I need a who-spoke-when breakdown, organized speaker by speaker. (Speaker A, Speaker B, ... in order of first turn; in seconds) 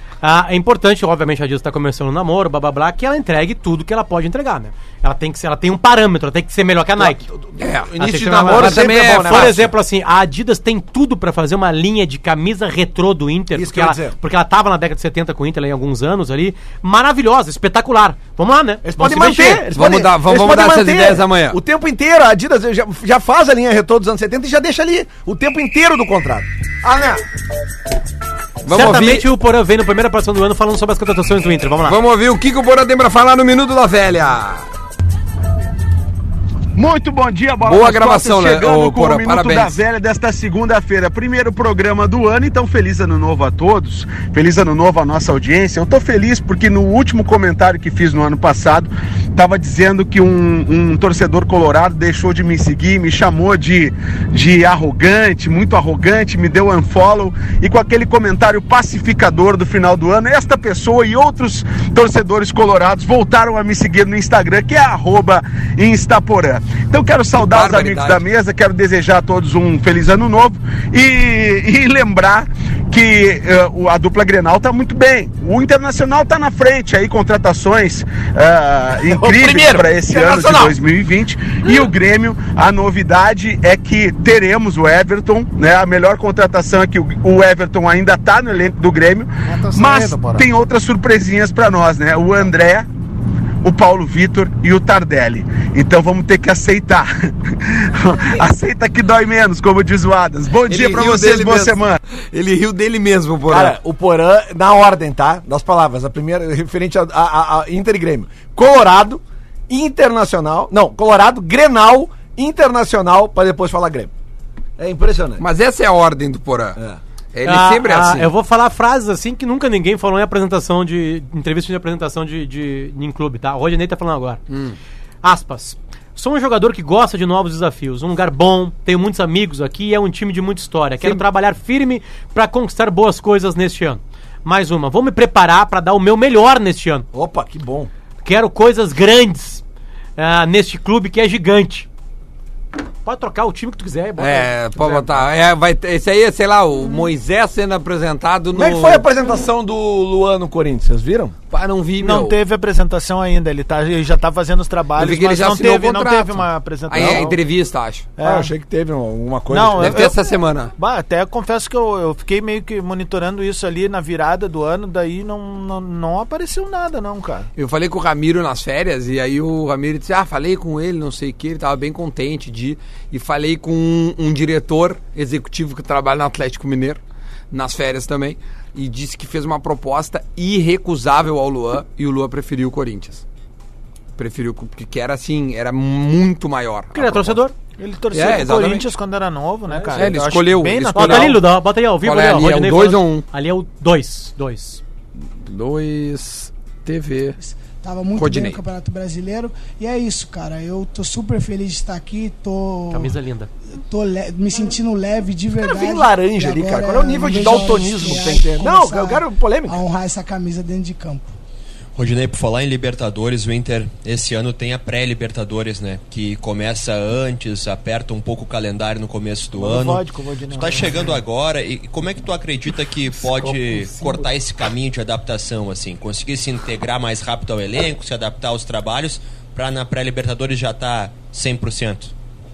Speaker A: 0.2-7.3, 8.0-19.6, 28.7-32.0, 117.4-124.4, 125.2-137.1, 138.2-139.6, 140.2-141.9, 143.0-145.1, 186.9-187.5, 190.9-194.8, 202.9-203.5
Speaker B: 7.0-9.7, 13.5-14.1, 18.8-27.2, 79.0-80.8, 103.5-114.1, 114.8-115.4, 137.1-137.9, 148.5-151.3, 156.9-157.3, 158.2-160.1, 205.6-209.8
Speaker C: 7.6-7.9, 8.5-9.6, 19.7-21.6, 28.6-29.2, 31.8-34.6, 37.6-39.8, 67.5-68.2, 100.7-101.8, 102.3-103.7, 115.4-116.8, 117.3-118.3, 124.5-124.8, 144.2-149.0, 151.5-152.4, 154.9-158.1, 159.8-160.7, 167.6-177.0, 177.5-183.2, 184.2-187.4, 188.1-188.9, 189.9-191.4, 192.0-193.2, 195.4-197.4, 198.1-198.6
Speaker D: 36.7-92.9, 93.6-102.0
Speaker E: 89.5-90.5, 152.0-157.4, 158.2-158.5, 159.5-167.5, 187.8-191.4, 219.6-221.2, 223.5-224.1
Speaker F: 197.4-203.2, 203.8-211.3
Speaker G: 211.9-232.1